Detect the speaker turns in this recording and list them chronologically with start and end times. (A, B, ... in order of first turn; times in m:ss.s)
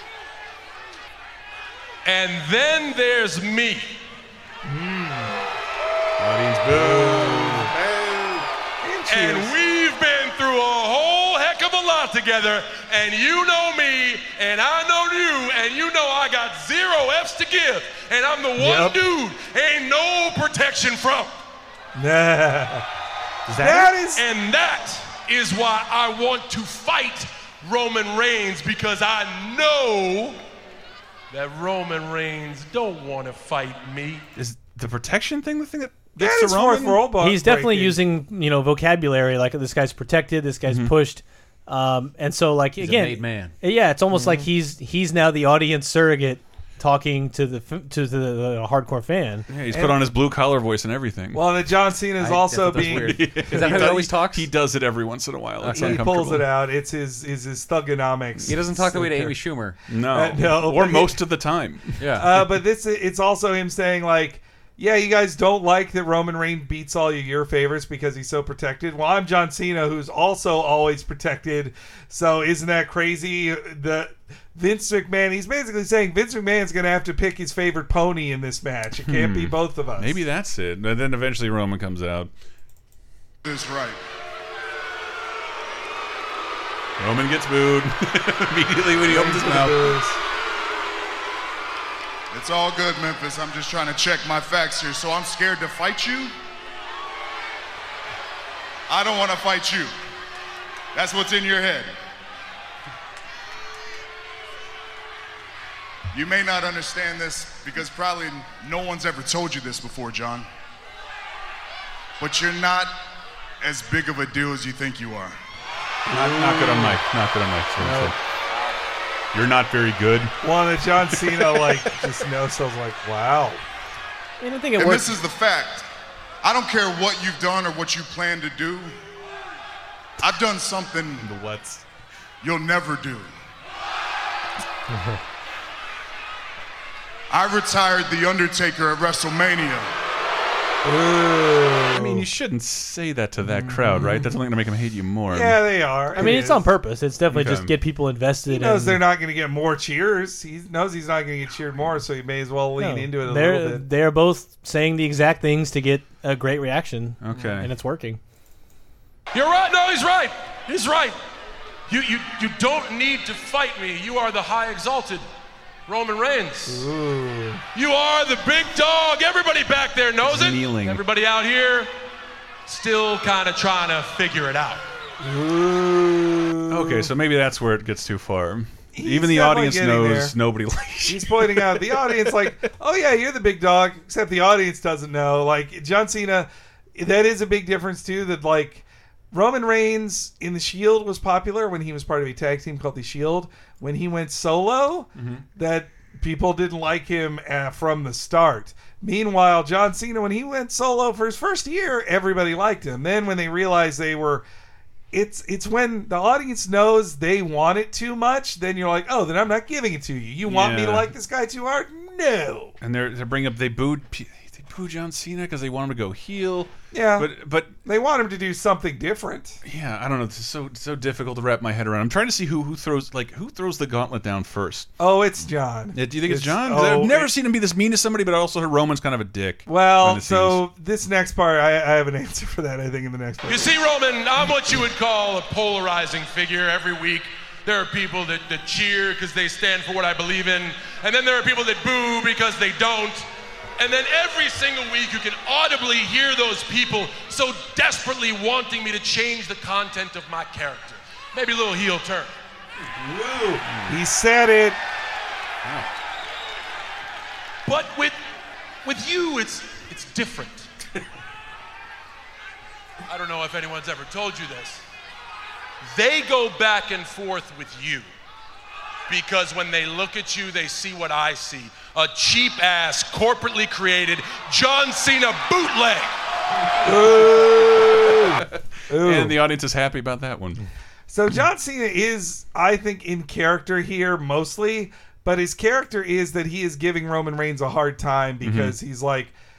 0:02.0-0:04.0 A
0:04.6-0:05.5 B
0:06.2-0:08.4 C
0:06.7-0:07.7 B
0:08.8-0:09.5 B
0:09.1-0:21.3 A
0:18.6-0:19.0 B
0:22.0-0:22.8 B
0:23.6-0:24.2 B
0:23.7-0:30.4 A
0:31.3-0:34.3 A
0:34.4-0:37.0 C
0:36.2-0:38.0 B
0:37.2-0:49.5 D
0:40.7-0:40.9 C
0:42.8-0:43.5 E
0:49.5-0:51.4 C
0:49.7-0:50.1 B
0:51.3-0:54.0 B
0:52.2-0:54.5 E
0:52.8-0:56.5 C
0:55.6-0:56.1 E
0:55.7-0:59.3 B
0:58.5-0:59.8 E
0:59.9-1:02.0 C
1:00.1-1:01.2 B
1:02.0-1:02.3 E
1:02.2-1:20.2 B
1:19.1-1:22.3 C
1:23.4-1:24.0 F
1:27.0-1:29.9 C
1:29.0-1:30.2 B
1:32.3-1:36.3 F
1:38.9-1:39.9 F
1:40.9-1:41.9 F
1:46.1-1:50.5 F
1:52.2-1:52.9 F
1:53.6-1:55.4 F
1:56.1-1:57.0 B
1:56.1-1:58.2 C
1:57.8-1:58.1 B
1:59.3-2:00.4 C
2:00.4-2:03.6 B
2:04.4-2:05.2 D
2:04.8-2:05.9 F
2:06.4-2:08.9 F
2:10.2-2:11.3 F
2:11.2-2:11.8 C
2:12.4-2:13.3 F
2:17.3-2:19.9 F
2:20.8-2:22.3 B
2:22.0-2:25.6 C
2:23.5-2:24.2 B
2:25.3-2:26.7 B
2:26.2-2:29.0 D
2:27.3-2:27.7 C
2:28.5-2:33.8 B
2:32.8-2:38.2 D
2:37.2-2:37.7 C
2:39.3-2:41.2 A
2:41.9-2:45.2 A
2:45.9-2:46.9 A
2:46.7-2:47.6 B
2:47.7-2:51.9 A
2:50.2-2:51.0 C
2:52.7-2:54.8 A
2:55.2-2:57.1 B
2:56.7-3:02.3 C
2:58.9-3:00.4 B
3:01.0-3:24.4 B
3:15.2-3:15.4 C
3:25.1-3:32.8 B
3:30.4-3:31.1 C
3:32.8-3:37.7 C
3:36.9-3:39.6 B
3:39.6-3:44.9 C
3:45.0-3:47.3 B
3:45.9-3:50.6 C
3:49.7-3:53.8 B
3:53.5-4:03.3 A
4:03.8-4:12.3 A
4:13.0-4:14.8 B
4:17.7-4:18.2 A
4:18.8-4:20.7 A
4:23.1-4:24.8 A
4:25.8-4:28.1 A
4:29.1-4:36.1 A
4:36.8-4:39.4 B
4:38.0-4:38.5 C
4:39.0-4:40.6 C
4:41.1-4:49.3 B
4:48.4-4:48.8 C